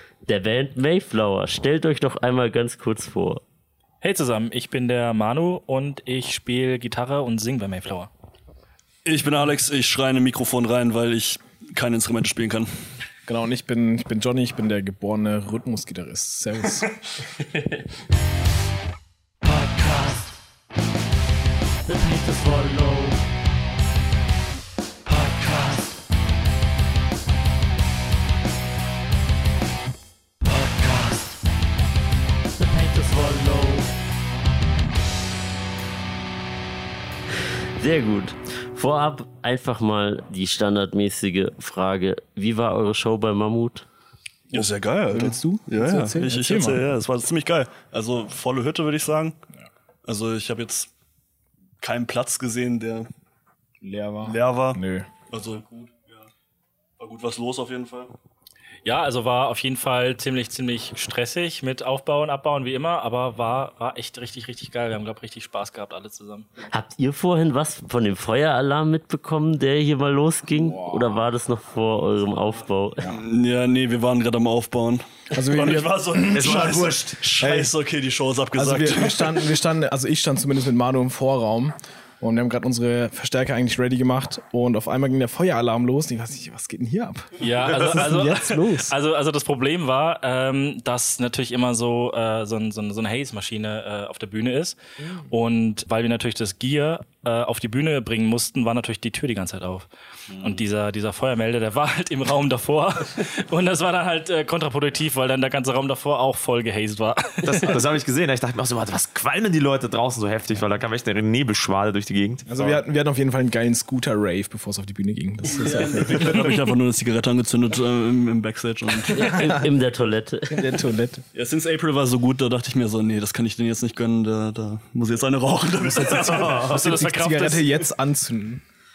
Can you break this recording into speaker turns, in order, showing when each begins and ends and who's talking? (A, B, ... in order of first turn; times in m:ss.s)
0:00.3-0:03.4 A
0:04.0-0:08.1 B
0:09.0-0:12.7 C
0:13.3-0:16.9 D
0:22.1-0:22.7 A
0:32.6-0:33.7 B
0:37.8-0:43.9 A
0:44.5-0:49.4 C
0:44.5-0:46.8 D
0:50.1-0:50.9 C
0:51.8-0:53.1 C
0:53.8-0:55.1 D
0:54.2-0:56.3 C
0:57.0-0:58.1 C
0:58.8-1:06.5 B
1:06.7-1:13.1 A
1:10.6-1:11.0 D
1:13.0-1:19.4 C
1:15.3-1:17.7 D
1:16.3-1:17.3 E
1:18.5-1:29.0 D
1:27.4-1:34.8 B
1:35.0-1:35.3 D
1:35.3-1:39.9 B
1:40.4-1:47.8 B
1:47.4-1:52.5 E
1:52.5-1:56.5 D
1:55.5-1:59.4 C
1:59.1-2:00.7 A
2:00.5-2:01.2 D
2:01.3-2:06.7 C
2:06.0-2:07.7 B
2:06.5-2:08.6 D